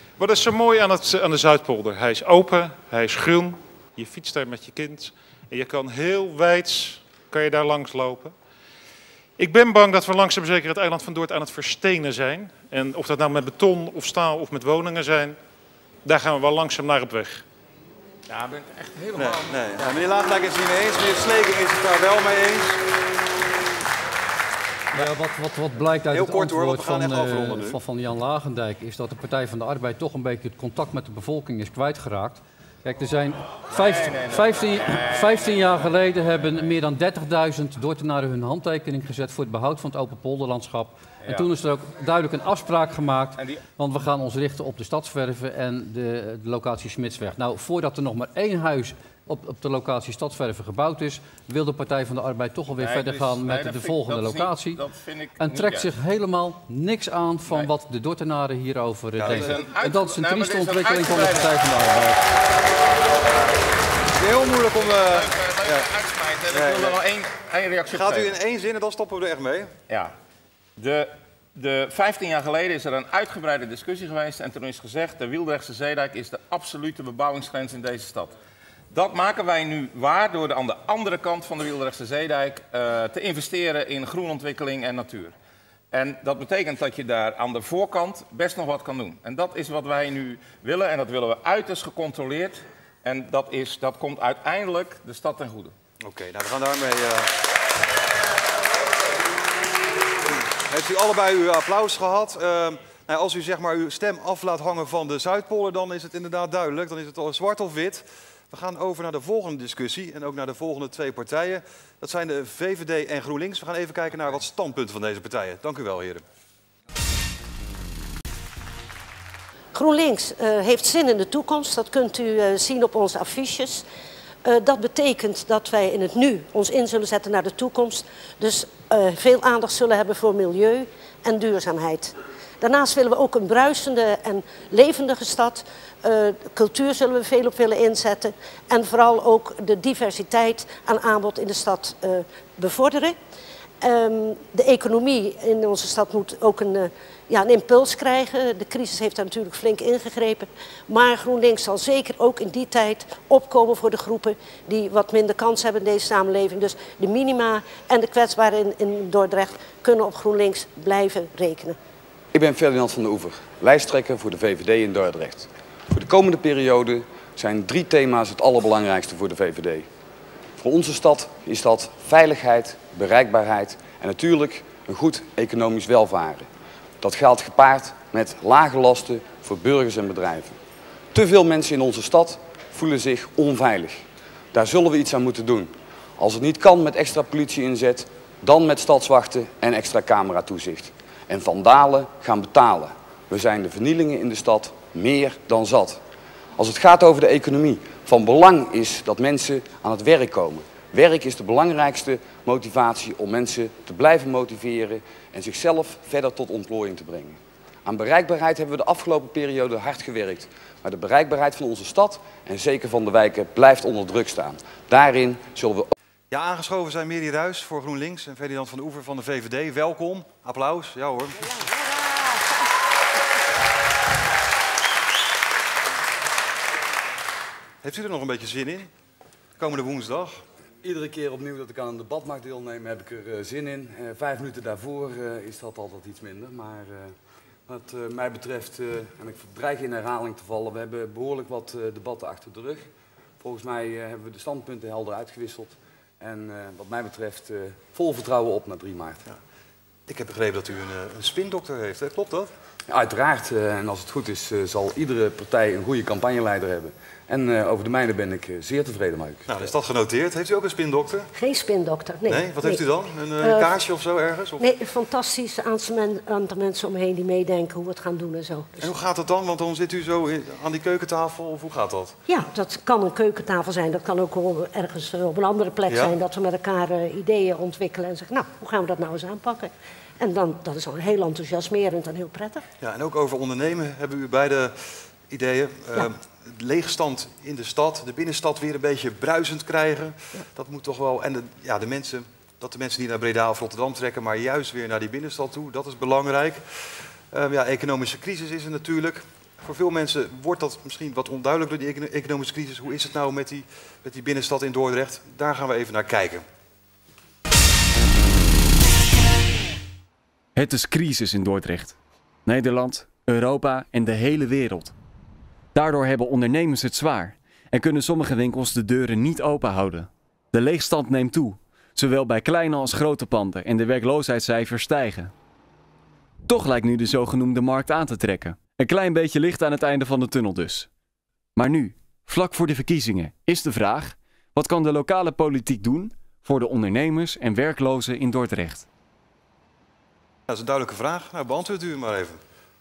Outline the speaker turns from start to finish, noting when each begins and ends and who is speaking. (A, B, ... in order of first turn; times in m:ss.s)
0:00.2-0:08.3 A
0:09.4-0:15.4 A
0:16.0-0:17.4 A
0:18.3-0:19.8 B
0:19.2-0:22.8 C
0:24.9-0:54.8 D
0:26.1-0:27.8 C
0:33.7-0:35.9 B
0:41.2-0:41.5 B
0:43.4-0:43.6 B
0:52.8-0:56.0 B
0:55.4-1:02.2 D
0:59.2-0:59.5 C
0:59.3-1:01.6 B
1:04.2-1:05.9 C
1:04.7-1:08.4 B
1:06.5-1:07.0 C
1:07.9-1:09.7 C
1:09.9-1:10.1 B
1:10.8-1:18.3 B
1:18.9-1:25.4 B
1:25.9-1:35.7 B
1:36.0-1:37.3 C
1:40.7-1:56.2 C
1:59.7-2:03.8 E
2:04.4-2:23.2 E
2:23.8-2:41.8 E
2:42.3-2:49.9 F
2:50.6-2:56.5 F
2:57.0-3:00.6 F
3:01.1-3:04.0 F
3:04.5-3:16.0 F
3:16.6-3:35.9 F
3:36.3-3:41.5 C
3:41.4-3:42.5 E
3:47.8-3:48.9 C
3:49.6-3:50.4 C
3:50.8-3:57.1 F
3:57.7-4:02.9 F
4:03.4-4:09.2 F
4:10.1-4:12.5 C
4:12.9-4:19.7 F
4:19.5-4:21.3 C
4:21.3-4:22.8 E
4:22.3-4:24.6 C
4:23.4-4:23.7 E
4:24.6-4:28.8 E
4:28.8-4:32.2 C
4:32.3-4:42.6 E
4:35.9-4:36.1 C
4:42.8-5:06.4 C
5:10.6-5:15.0 G
5:15.8-5:25.3 G
5:26.5-5:30.9 G
5:31.6-5:38.9 G
5:40.5-5:42.4 C